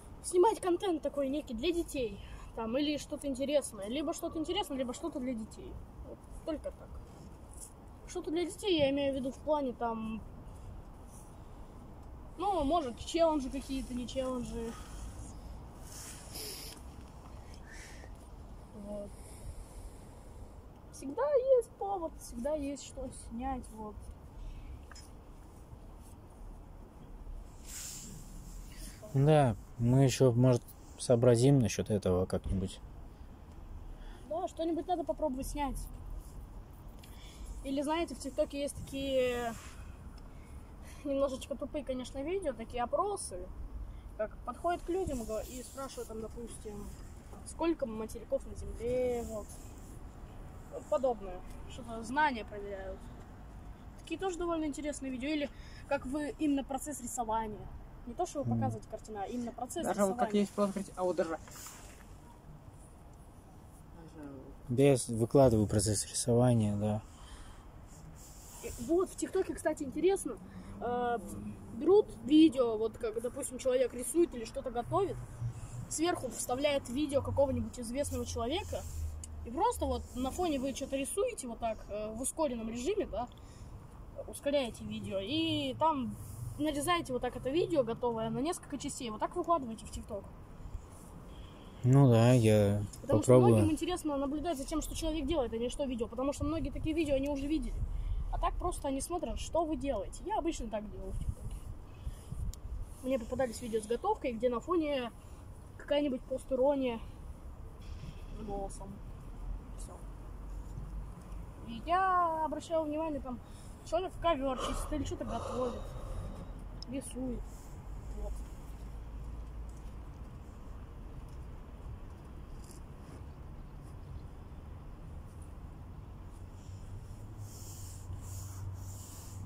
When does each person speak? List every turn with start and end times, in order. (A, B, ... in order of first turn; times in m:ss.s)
0:00.2-0:07.0 A
0:08.0-0:10.2 A
0:12.4-0:14.8 A
0:18.7-0:19.1 A
0:20.9-0:24.0 A
0:29.1-0:32.8 B
0:34.2-0:35.9 A
0:37.6-0:39.6 A
0:41.0-0:43.5 A
0:44.2-0:49.5 A
0:50.7-0:53.0 A
0:54.0-1:00.5 A
0:58.4-0:58.7 B
0:59.8-1:01.4 C
1:04.0-1:04.6 C
1:04.7-1:07.0 B
1:08.6-1:15.2 A
1:15.9-1:18.8 A
1:19.4-1:23.3 A
1:24.2-1:30.3 A
1:31.8-1:33.7 B
1:33.0-1:41.6 A
1:43.0-1:45.1 A
1:45.8-1:47.0 A
1:48.3-1:49.0 A
1:49.7-1:50.0 A
1:51.6-1:55.9 A
1:56.9-1:57.4 A
1:58.1-1:58.4 A